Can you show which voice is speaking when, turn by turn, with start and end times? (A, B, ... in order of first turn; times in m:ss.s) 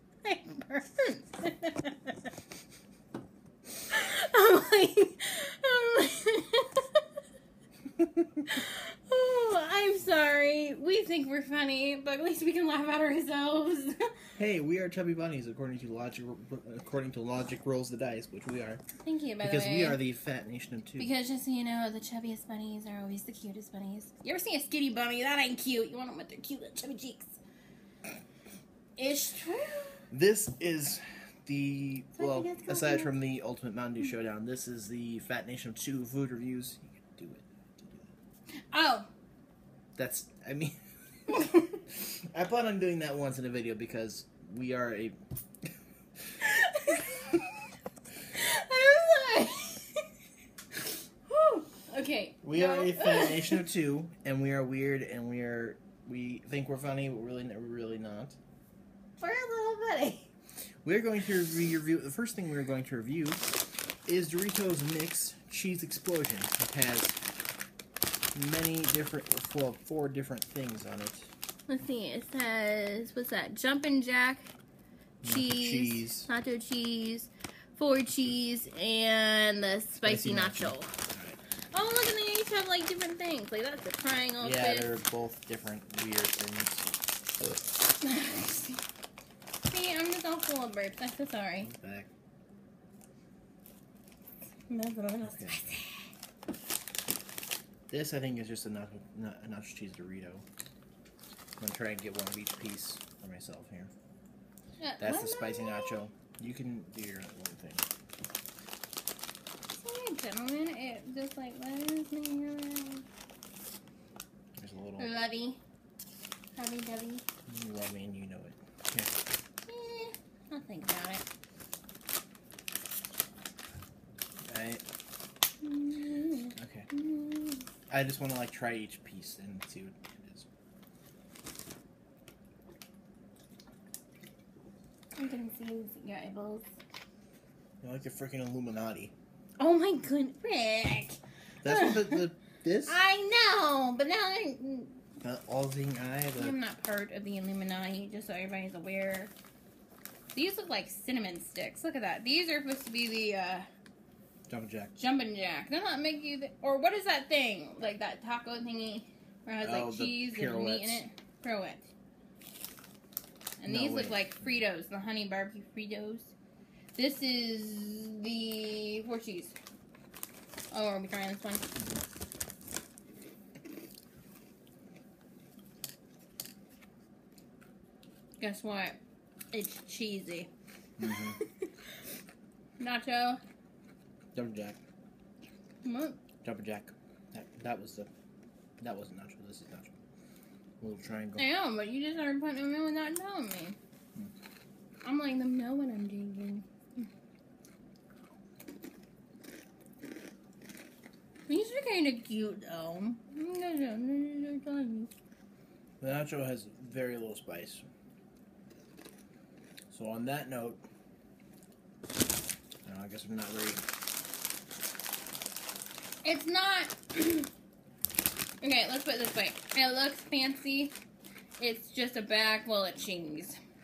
0:00.2-0:02.3 A
0:03.9-0:07.0 A
0:08.4-0:14.1 A
0:14.4-0:18.8 B
0:19.0-0:20.0 A
0:19.4-0:21.1 B
0:21.0-0:27.4 A
0:29.0-0:30.0 A
0:30.1-0:38.1 B
0:32.2-0:33.2 A
0:38.7-0:39.1 A
0:40.0-0:40.8 B
0:41.3-0:41.8 A
0:41.3-0:45.2 B
0:46.4-0:47.6 A
0:48.3-0:50.0 A
0:51.3-0:53.6 A
0:52.4-0:58.4 B
0:59.2-1:00.3 A
1:00.8-1:03.5 B
1:04.0-1:07.2 B
1:08.3-1:11.3 B
1:11.7-1:14.5 A
1:15.2-1:16.3 B
1:15.2-1:20.9 A
1:20.0-1:21.4 B
1:21.7-1:24.9 A
1:24.4-1:26.9 B
1:28.0-1:28.8 A
1:29.7-1:31.7 A
1:31.6-1:32.1 B
1:34.7-1:36.0 A
1:35.2-1:35.6 B
1:37.9-1:40.4 B
1:41.6-1:43.9 B
1:44.8-1:46.0 A
1:45.0-1:47.8 B
1:49.7-1:53.0 A
1:54.6-1:55.1 B
1:55.0-1:55.6 A
1:56.5-1:57.2 A
1:57.5-1:59.1 B
1:59.7-2:01.2 A
2:04.5-2:04.8 B
2:05.6-2:07.6 A
2:06.6-2:06.9 B
2:07.9-2:10.5 B
2:15.2-2:16.7 A
2:17.8-2:19.1 B
2:19.6-2:22.2 A
2:21.6-2:23.0 B
2:22.8-2:25.0 A
2:25.2-2:26.6 B
2:26.4-2:29.3 A
2:30.3-2:33.6 A
2:34.5-2:34.9 B
2:35.0-2:41.8 A
2:39.6-2:41.0 B
2:43.6-2:46.3 A
2:43.6-2:44.3 B
2:47.0-2:49.5 A
2:50.7-2:51.6 A
2:58.4-2:59.0 A
2:59.5-3:00.5 A
3:01.0-3:01.4 B
3:02.8-3:03.4 A
3:04.3-3:04.8 B
3:05.8-3:06.2 A
3:06.4-3:08.1 B
3:08.8-3:09.9 B
3:10.8-3:11.5 B
3:11.4-3:13.8 A
3:15.0-3:17.1 A
3:21.5-3:25.1 A
3:26.0-3:27.8 B
3:29.9-3:30.8 B
3:32.8-3:33.8 B
3:36.2-3:37.5 A
3:38.6-3:40.9 A
3:41.6-3:43.6 A